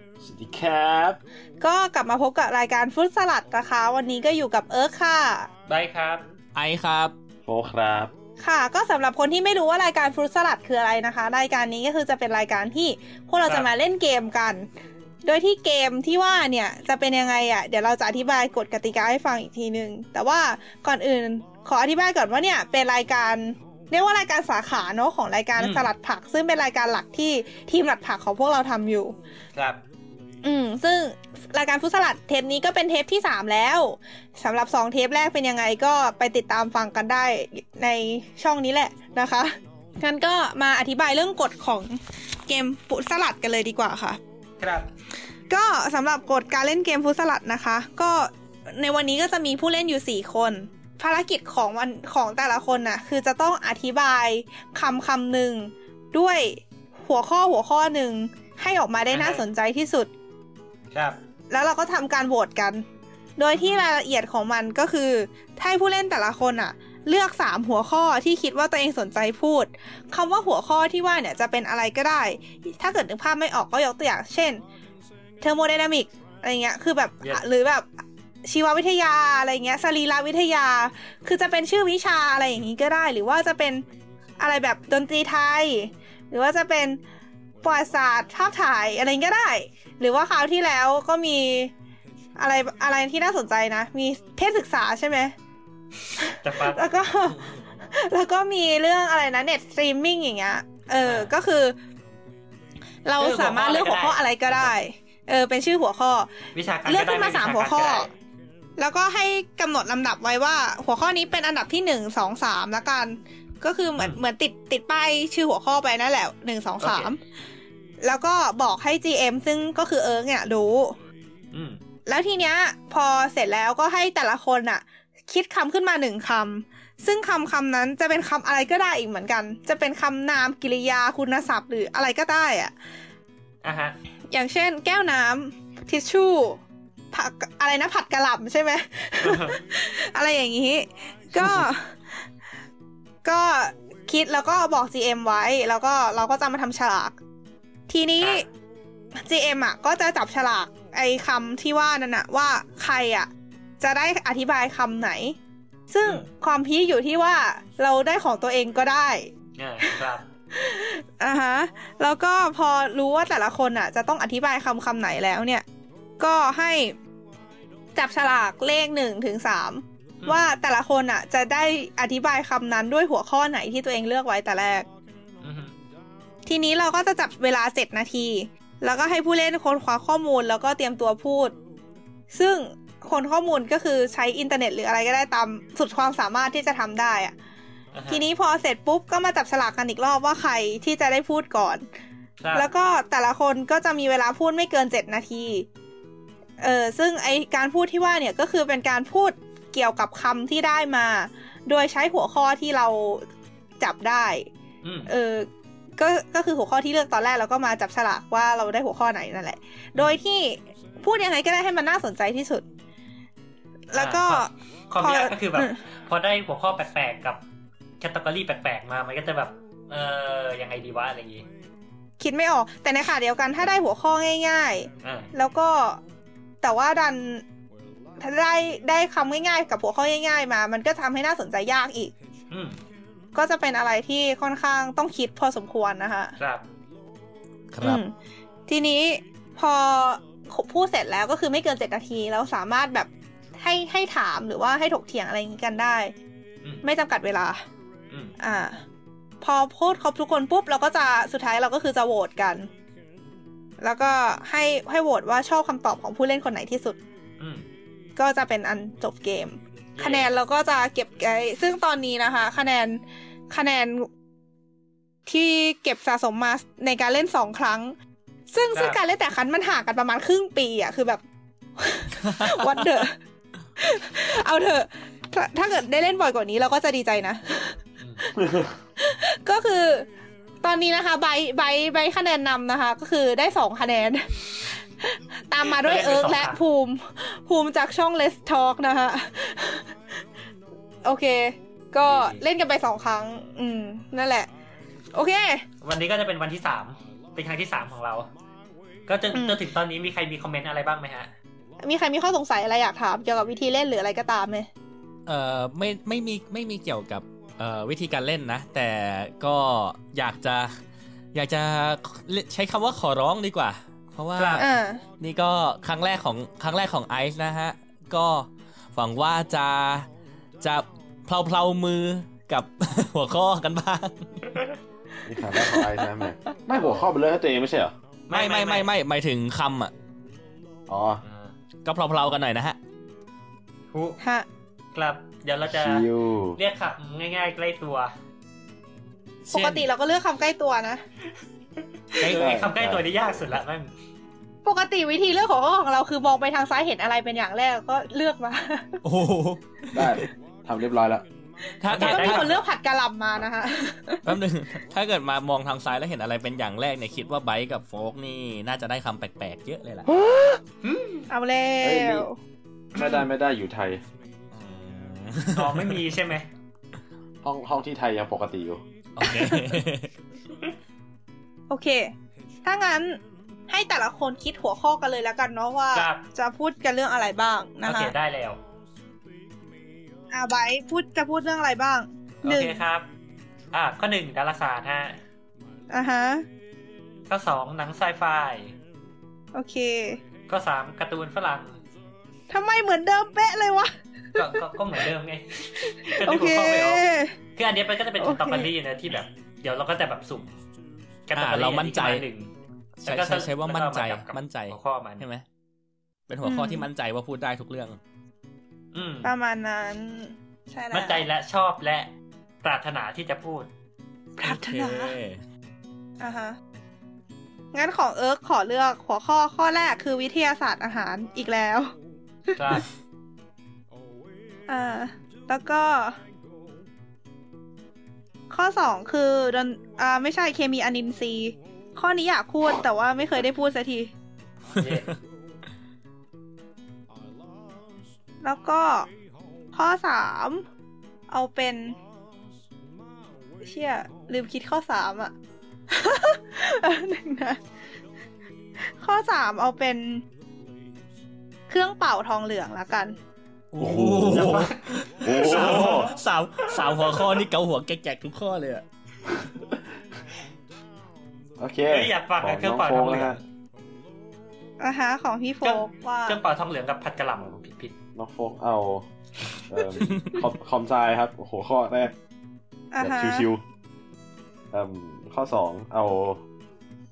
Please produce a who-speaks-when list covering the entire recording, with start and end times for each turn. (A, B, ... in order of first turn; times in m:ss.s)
0:00.2-0:01.2 A
0:01.6-0:05.5 B
0:05.7-0:06.2 C
0:06.5-0:07.1 D
0:07.4-0:08.1 A
0:08.4-0:14.6 B
0:15.2-0:29.2 B
0:25.6-0:25.9 C
0:29.5-0:29.8 C
0:30.4-0:44.2 B
0:44.6-0:44.9 C
0:45.5-1:00.1 B
0:59.1-0:59.4 C
1:01.5-1:02.8 B
1:03.4-1:14.6 B
1:03.5-1:03.8 C
1:15.4-1:17.9 B
1:18.4-1:23.8 B
1:24.4-1:27.0 B
1:27.6-1:31.7 B
1:32.4-1:35.3 B
1:36.2-1:41.8 B
1:36.4-1:37.0 C
1:41.0-1:41.3 C
1:43.0-1:46.3 B
1:43.2-1:44.7 C
1:46.5-1:48.1 C
1:46.8-1:48.1 B
1:48.8-1:57.2 B
1:56.8-1:57.1 C
1:58.0-2:01.0 B
2:01.5-2:01.8 C
2:02.1-2:12.7 B
2:13.6-2:14.0 C
2:14.3-2:16.6 B
2:17.1-2:22.0 B
2:19.2-2:19.6 C
2:23.2-2:27.2 B
2:27.9-2:28.4 B
2:29.2-2:33.3 B
2:33.8-2:35.4 B
2:35.9-2:39.3 B
2:39.6-2:40.2 C
2:40.5-2:45.6 B
2:46.2-2:46.9 B
2:47.9-2:54.9 B
2:55.4-2:55.7 C
2:56.4-3:01.5 B
3:02.3-3:07.3 B
3:07.9-3:08.2 C
3:08.1-3:11.8 B
3:12.4-3:12.7 C
3:12.5-3:15.7 B
3:16.6-3:23.2 B
3:23.8-3:24.5 B
3:24.8-3:25.1 C
3:25.1-3:32.6 B
3:33.9-3:35.8 B
3:33.9-3:37.4 C
3:38.0-3:41.4 C
3:42.2-3:46.0 B
3:45.0-3:45.3 C
3:46.6-3:47.4 B
3:48.2-3:52.1 B
3:52.5-3:52.8 C
3:53.3-3:56.3 B
3:56.4-3:56.6 C
3:57.7-3:58.0 D
3:57.8-3:58.1 B
3:58.7-4:06.1 B
4:06.8-4:07.6 B
4:08.4-4:08.8 B
4:09.4-4:12.7 B
4:13.8-4:17.0 B
4:17.4-4:17.6 C
4:18.2-4:24.1 B
4:20.0-4:20.3 C
4:25.3-4:28.0 B
4:28.5-4:31.2 B
4:31.8-4:33.2 B
4:32.2-4:32.8 D
4:33.8-4:38.4 B
4:38.4-4:38.7 A
4:39.0-4:40.1 B
4:40.6-4:49.9 B
4:45.6-4:46.6 C
4:51.0-4:54.5 B
4:52.1-4:52.4 C
4:55.1-4:55.6 B
4:55.8-4:58.3 C
4:59.1-5:01.3 C
4:59.3-4:59.6 B
5:01.8-5:04.7 B
5:05.2-5:10.8 D
5:11.3-5:14.7 D
5:14.4-5:14.6 C
5:14.6-5:15.0 B
5:15.2-5:20.1 D
5:20.6-5:24.5 D
5:25.2-5:25.9 B
5:25.2-5:27.9 A
5:26.8-5:27.0 C
5:28.3-5:28.9 C
5:28.3-5:29.9 D
5:30.9-5:31.2 A
5:31.2-5:31.5 C
5:31.8-5:32.8 D
5:33.9-5:34.2 C
5:34.2-5:34.4 B
5:34.9-5:38.1 C
5:35.7-5:36.6 A
5:39.4-5:39.9 D
5:39.5-5:41.0 B
5:42.1-5:43.9 C
5:42.2-5:43.1 A
5:44.6-5:49.0 B
5:49.0-5:50.2 D
5:49.9-5:51.2 A
5:51.8-5:52.5 D
5:51.9-5:52.6 C
5:51.9-5:54.3 B
5:54.2-6:00.1 D
6:00.8-6:01.3 C
6:01.3-6:02.4 B
6:01.8-6:02.2 A
6:02.9-6:04.0 A
6:04.5-6:06.0 D
6:05.5-6:06.4 C
6:07.4-6:08.8 A
6:09.2-6:10.1 D
6:09.2-6:09.8 B
6:11.7-6:12.1 B
6:12.6-6:13.2 B
6:13.7-6:18.1 B
6:15.9-6:16.2 C
6:17.8-6:18.6 C
6:20.3-6:22.8 B
6:22.4-6:23.1 C
6:23.7-6:25.2 C
6:25.9-6:26.4 B
6:27.3-6:28.7 C
6:29.5-6:30.2 B
6:30.5-6:31.8 C
6:32.5-6:34.5 B
6:34.4-6:40.5 C
6:35.7-6:37.4 B
6:38.2-6:38.7 B
6:41.3-6:42.5 C
6:41.4-6:42.2 D
6:43.0-6:45.4 D
6:43.0-6:45.2 C
6:46.3-6:48.0 D
6:46.4-6:46.9 B
6:48.9-6:49.3 C
6:49.2-6:51.2 B
6:50.9-6:52.1 C
6:52.6-6:53.7 C
6:54.4-6:55.1 B
6:54.4-6:55.4 D
6:56.2-6:56.6 B
6:57.7-7:01.9 B
7:02.5-7:02.8 B
7:02.6-7:02.8 C
7:04.7-7:06.2 B
7:08.5-7:14.1 B
7:14.7-7:15.0 C
7:14.8-7:15.1 D
7:18.4-7:19.1 B
7:19.7-7:20.6 B
7:21.3-7:22.0 B
7:23.6-7:25.3 B
7:25.9-7:27.6 B
7:29.0-7:30.2 B
7:31.7-7:33.2 B
7:33.7-7:38.8 D
7:33.8-7:36.1 A
7:34.4-7:34.8 C
7:35.3-7:36.2 C
7:36.7-7:37.4 C
7:41.6-7:43.4 A
7:41.9-7:43.4 C
7:44.8-7:46.4 B
7:45.6-7:47.9 C
7:48.1-7:49.0 A
7:49.7-7:52.1 A
7:50.1-7:50.4 D
7:52.9-7:53.5 B
7:53.0-7:53.6 A
7:54.7-7:56.4 A